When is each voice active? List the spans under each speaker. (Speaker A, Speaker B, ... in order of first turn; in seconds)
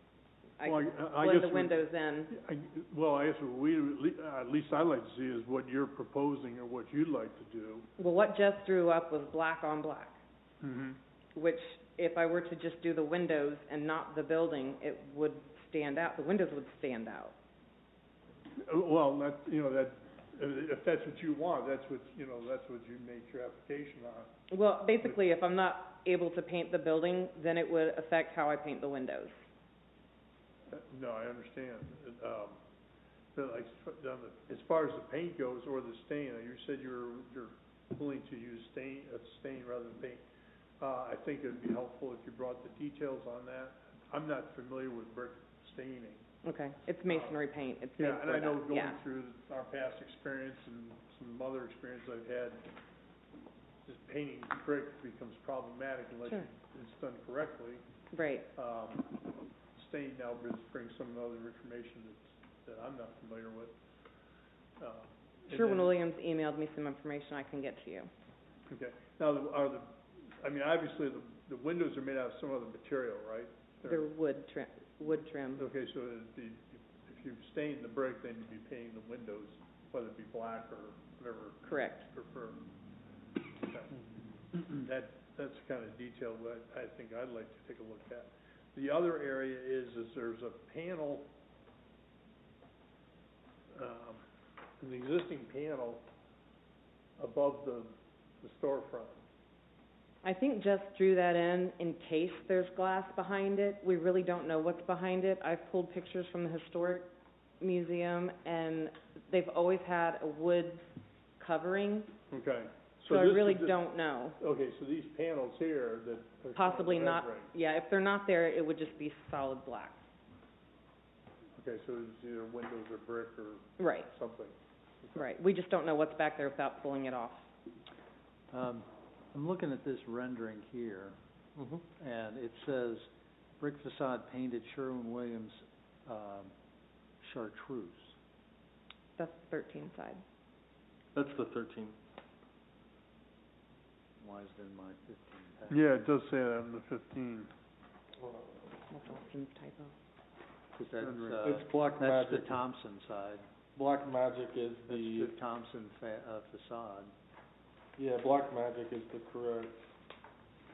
Speaker A: 0.6-2.3, 8.0-10.2, 11.3-17.3, 24.5-29.4, 46.4-49.0, 58.1-58.5, 65.5-68.1, 73.8-75.7, 81.6-82.0, 100.2-107.1, 107.6-112.1, 113.1-114.4, 116.5-120.0, 123.8-124.1, 125.1-127.5, 139.2-140.2, 148.9-149.9
Speaker B: 0.6-1.8, 2.3-7.9, 10.6-11.0, 18.6-24.3, 30.7-32.6, 33.3-40.2, 40.8-46.2, 47.1-47.4, 48.0-52.6, 53.8-57.8, 58.5-59.1, 59.8-63.7, 64.8-66.0, 68.7-69.9, 70.4-74.1, 75.5-82.6, 83.6-83.9, 84.5-91.3, 93.7-94.2, 94.8-96.0, 97.2-99.2, 112.3-113.8, 114.4-117.5, 121.6-125.3, 145.7-147.5, 151.0-151.4
Speaker C: 128.5-131.1, 132.0-133.1, 133.6-136.5, 137.2-138.1, 144.2-145.9, 150.8-153.4, 154.9-157.1
Speaker D: 131.6-131.8, 141.1-141.9, 148.2-148.5, 151.4-152.6, 153.8-155.3, 158.0-159.8